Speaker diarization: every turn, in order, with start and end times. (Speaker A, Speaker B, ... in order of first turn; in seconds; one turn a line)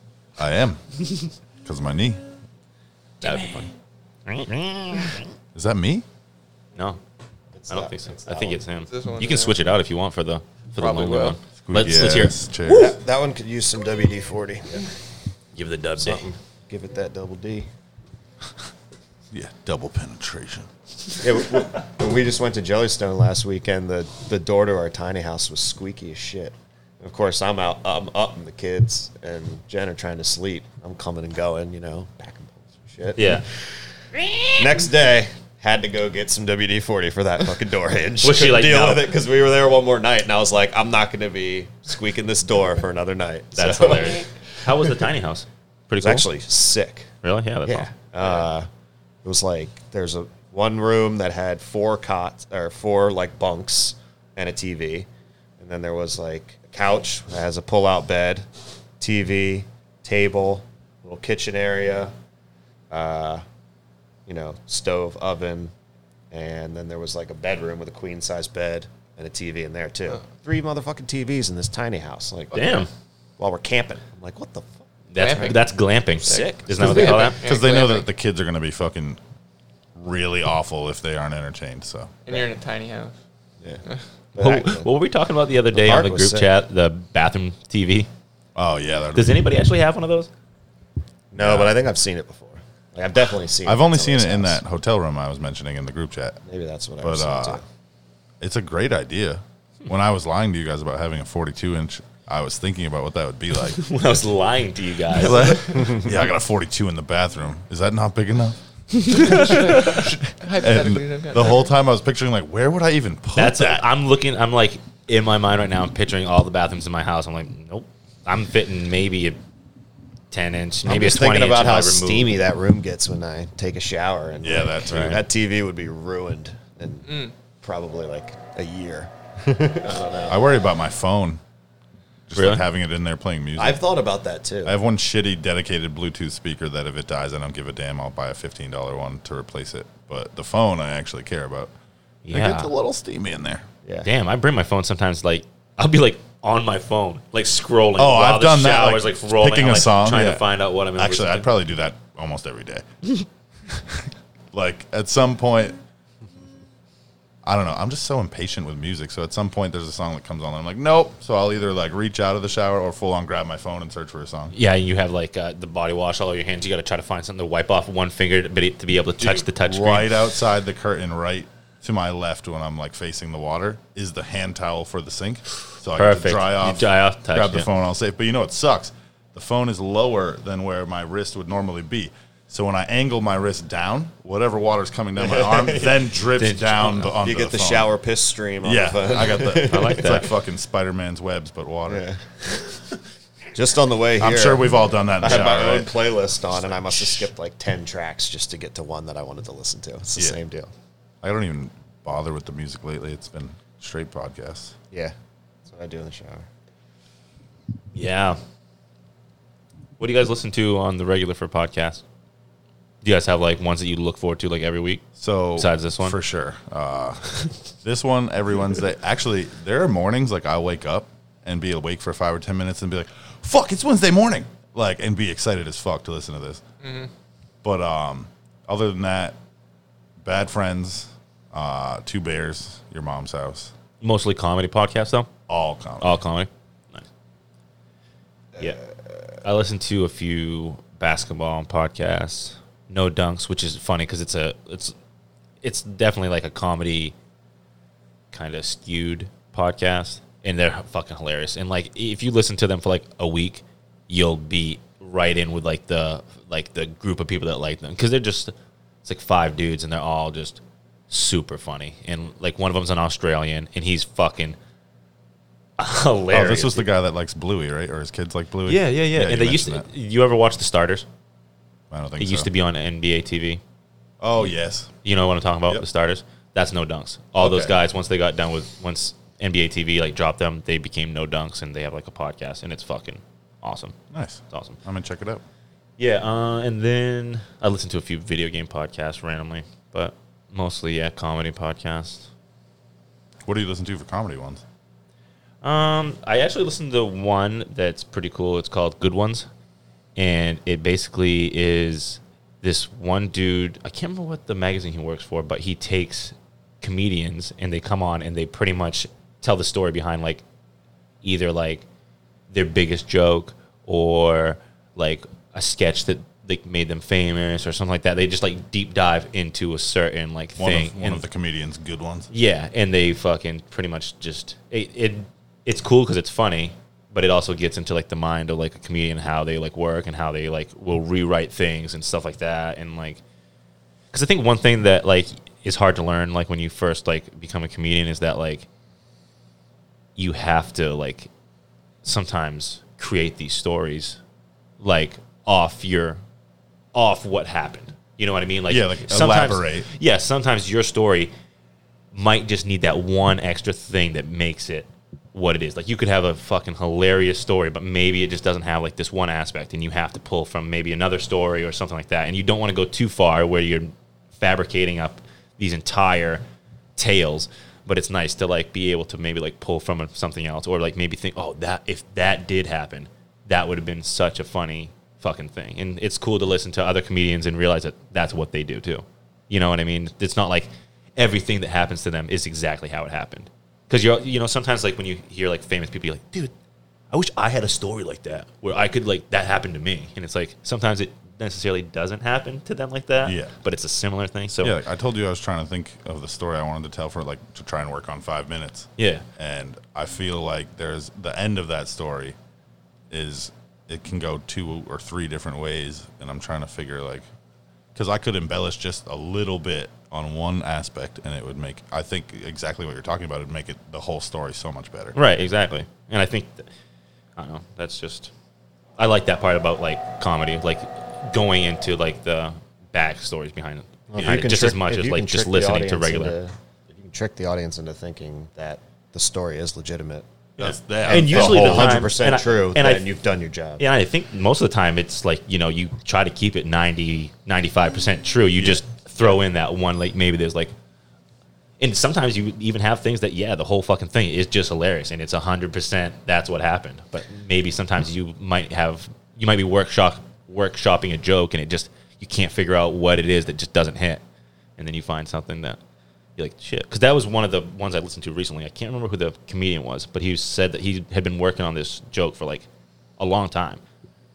Speaker A: 0.4-0.8
Speaker A: 1.6-2.2
Speaker B: 3.2-3.7
Speaker B: 4.3-5.3
Speaker A: 5.5-6.0
Speaker C: 7.5-8.6
Speaker B: 7.7-12.4
Speaker D: 8.9-9.6
Speaker D: 10.8-11.4
Speaker A: 11.6-13.0
Speaker C: 12.7-14.8
Speaker B: 15.5-16.3
Speaker C: 16.0-17.7
Speaker A: 19.3-20.7
Speaker C: 21.2-33.4
Speaker B: 33.2-33.5
Speaker B: 34.1-34.7
Speaker C: 34.5-44.3
Speaker B: 38.2-39.1
Speaker B: 43.5-46.3
Speaker C: 46.0-47.1
Speaker B: 47.2-47.9
Speaker C: 47.6-48.7
Speaker C: 49.2-55.1
Speaker C: 55.6-58.4
Speaker C: 59.0-62.1
Speaker C: 62.9-63.4
Speaker C: 64.2-65.7
Speaker C: 66.3-72.8
Speaker B: 72.5-72.9
Speaker C: 73.4-74.9
Speaker B: 75.1-77.4
Speaker D: 75.2-75.6
Speaker C: 76.2-77.3
Speaker D: 76.2-78.1
Speaker A: 77.1-79.2
Speaker A: 80.0-82.1
Speaker D: 82.2-83.1
Speaker C: 84.3-84.9
Speaker B: 84.4-88.1
Speaker C: 85.7-86.5
Speaker A: 88.5-89.5
Speaker B: 89.1-90.3
Speaker C: 91.3-94.6
Speaker A: 91.3-91.8
Speaker A: 93.6-96.4
Speaker C: 96.5-97.6
Speaker A: 97.0-97.6
Speaker A: 98.4-103.8
Speaker B: 103.7-106.0
Speaker A: 105.1-113.9
Speaker C: 105.7-106.0
Speaker B: 109.0-109.8
Speaker D: 109.1-111.7
Speaker B: 113.4-119.4
Speaker B: 120.3-122.3
Speaker C: 120.8-130.4
Speaker A: 124.4-125.3
Speaker B: 124.9-125.2
Speaker D: 127.1-127.3
Speaker A: 130.3-131.4
Speaker A: 132.3-133.8
Speaker B: 132.3-132.6
Speaker C: 133.6-134.7
Speaker A: 134.6-141.7
Speaker B: 142.2-142.7
Speaker A: 142.3-143.7
Speaker C: 143.8-144.1
Speaker B: 144.0-151.5
Speaker A: 148.0-152.8
Speaker A: 154.5-155.8
Speaker A: 157.4-164.6
Speaker B: 164.5-170.2
Speaker A: 169.2-187.9
Speaker B: 175.9-177.7
Speaker C: 185.2-186.0
Speaker B: 186.3-187.1
Speaker C: 187.2-190.1
Speaker A: 188.6-192.0
Speaker B: 189.4-190.3
Speaker C: 191.9-192.2
Speaker C: 193.5-200.7
Speaker A: 194.2-196.1
Speaker A: 196.9-197.2
Speaker A: 201.2-204.8
Speaker C: 205.7-206.5
Speaker B: 207.9-208.4
Speaker B: 210.0-212.0
Speaker B: 213.0-215.1
Speaker A: 215.2-217.3
Speaker B: 215.6-216.2
Speaker A: 217.8-226.6
Speaker D: 226.8-227.1
Speaker A: 227.6-229.4
Speaker A: 230.2-233.7
Speaker B: 234.0-235.3
Speaker A: 235.5-236.1
Speaker B: 236.0-237.1
Speaker B: 239.4-244.9
Speaker B: 245.6-247.1
Speaker B: 248.3-264.6
Speaker B: 265.8-266.9
Speaker A: 266.3-269.9
Speaker B: 268.7-271.1
Speaker A: 271.9-272.5
Speaker B: 272.2-273.6
Speaker A: 274.2-274.9
Speaker B: 275.0-283.9
Speaker A: 277.4-277.7
Speaker A: 284.1-285.4
Speaker B: 284.5-284.8
Speaker B: 286.0-292.3
Speaker A: 293.4-294.6
Speaker B: 295.6-299.5
Speaker B: 300.1-310.4
Speaker B: 311.2-311.8
Speaker B: 312.5-321.2
Speaker A: 320.6-322.3
Speaker B: 322.3-333.2
Speaker B: 334.1-338.6
Speaker B: 340.2-341.3
Speaker B: 342.0-344.2
Speaker B: 344.8-346.2
Speaker B: 346.9-351.3
Speaker A: 348.7-349.9
Speaker B: 352.1-366.4
Speaker B: 367.0-386.5
Speaker B: 387.1-394.8
Speaker A: 393.2-393.5
Speaker A: 394.6-402.3
Speaker B: 399.0-399.2
Speaker A: 403.1-407.2
Speaker A: 407.9-415.1
Speaker B: 415.1-416.7
Speaker B: 417.4-418.3
Speaker B: 419.0-426.4
Speaker C: 424.1-430.2
Speaker A: 424.2-424.4
Speaker B: 430.6-433.0
Speaker A: 430.6-432.0
Speaker C: 431.0-433.8
Speaker B: 433.8-440.7
Speaker A: 438.6-438.8
Speaker B: 441.8-454.2
Speaker B: 454.8-455.8
Speaker B: 456.4-462.7
Speaker B: 463.2-463.8